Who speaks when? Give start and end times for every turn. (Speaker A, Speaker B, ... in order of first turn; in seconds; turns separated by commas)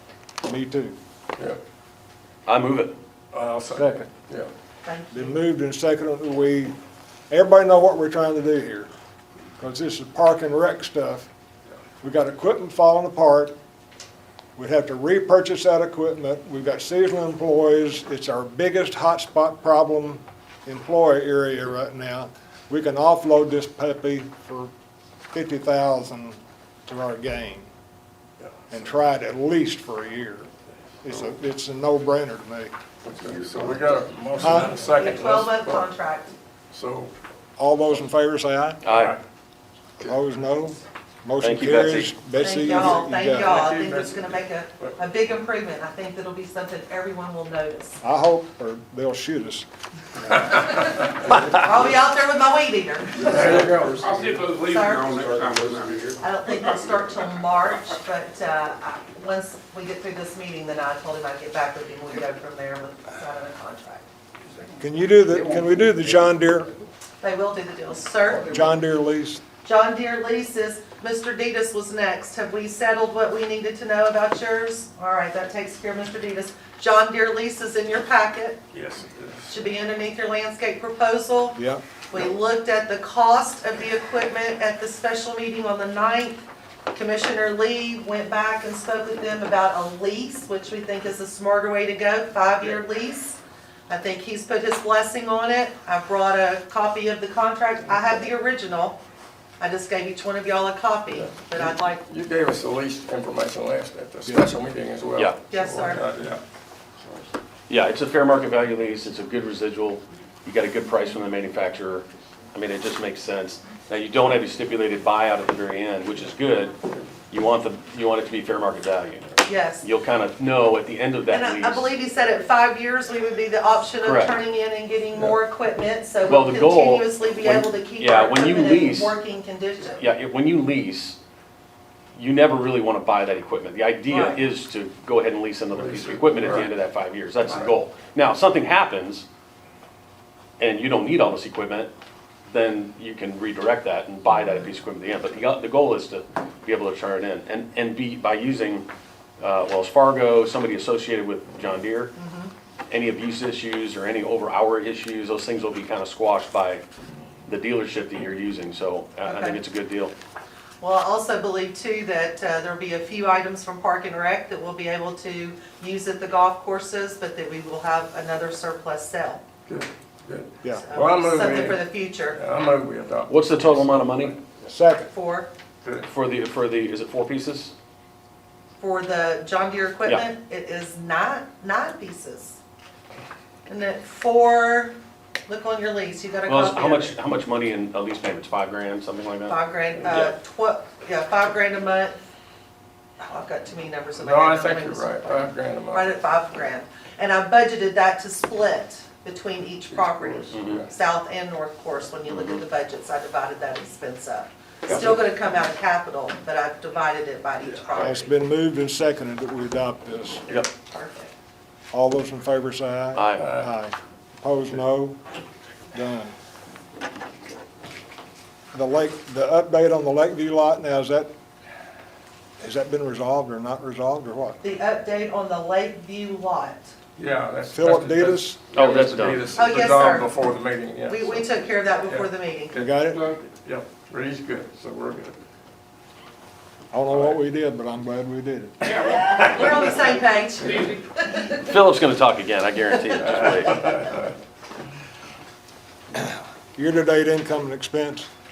Speaker A: 0.4-0.9, Speaker B: 2.5-2.9, Speaker C: 3.3-4.5, Speaker A: 3.7-4.1, Speaker D: 4.8-5.4, Speaker A: 5.1-6.7, Speaker A: 7.3-8.9, Speaker A: 9.6-11.3, Speaker A: 12.0-13.5, Speaker A: 14.6-24.7, Speaker A: 25.3-27.7, Speaker A: 28.7-30.5, Speaker A: 31.0-32.7, Speaker C: 33.0-35.8, Speaker A: 34.4-34.8, Speaker D: 34.9-36.3, Speaker C: 36.7-37.1, Speaker A: 37.6-38.8, Speaker B: 38.8-39.2, Speaker A: 40.0-43.6, Speaker B: 41.4-42.1, Speaker D: 42.3-48.0, Speaker C: 43.4-44.9, Speaker A: 48.0-49.6, Speaker D: 50.4-53.6, Speaker C: 53.2-54.3, Speaker E: 53.5-56.2, Speaker D: 54.6-55.2, Speaker D: 56.2-64.0, Speaker A: 64.8-66.7, Speaker D: 67.2-68.6, Speaker A: 68.4-69.4, Speaker D: 69.6-78.6, Speaker C: 78.9-79.3, Speaker D: 79.5-81.6, Speaker A: 81.5-81.8, Speaker D: 82.1-86.4, Speaker D: 86.9-93.4, Speaker D: 93.9-99.0, Speaker D: 99.6-102.0, Speaker C: 101.1-106.4, Speaker D: 105.5-106.0, Speaker B: 107.7-121.9, Speaker D: 119.5-119.8, Speaker D: 121.3-130.0, Speaker B: 124.0-124.3, Speaker B: 126.2-129.2, Speaker B: 130.0-131.2, Speaker B: 132.2-139.2, Speaker D: 134.1-134.4, Speaker C: 135.7-136.7, Speaker B: 140.6-141.9, Speaker B: 142.5-148.9, Speaker D: 144.3-144.6, Speaker B: 149.4-152.1, Speaker D: 152.2-152.5, Speaker B: 152.9-156.8, Speaker B: 157.4-160.1, Speaker D: 159.2-159.6, Speaker D: 160.8-169.4, Speaker C: 169.7-174.4, Speaker D: 170.7-172.4, Speaker B: 173.3-174.4, Speaker A: 174.6-175.1, Speaker D: 175.1-175.5, Speaker C: 175.8-176.1, Speaker B: 176.0-177.7, Speaker D: 178.8-182.6, Speaker D: 183.7-184.9, Speaker D: 185.5-187.2, Speaker B: 186.5-190.3, Speaker D: 189.5-192.2, Speaker D: 193.2-208.3, Speaker C: 194.2-196.1, Speaker C: 199.9-200.9, Speaker B: 200.5-200.8, Speaker B: 202.3-202.6, Speaker C: 204.9-205.2, Speaker A: 207.9-210.4, Speaker D: 210.5-211.3, Speaker A: 211.9-215.2, Speaker B: 213.1-213.6, Speaker C: 213.4-213.7, Speaker A: 215.9-216.3, Speaker A: 218.7-221.3, Speaker A: 222.6-224.6, Speaker D: 224.6-226.9, Speaker C: 227.2-231.5, Speaker A: 227.7-228.6, Speaker B: 228.7-229.5, Speaker D: 229.5-230.3, Speaker D: 231.1-232.8, Speaker C: 232.0-235.4, Speaker A: 232.8-233.3, Speaker A: 236.9-239.0, Speaker C: 238.9-239.7, Speaker D: 239.1-241.8, Speaker B: 241.6-244.0, Speaker D: 243.1-244.2, Speaker A: 246.7-248.3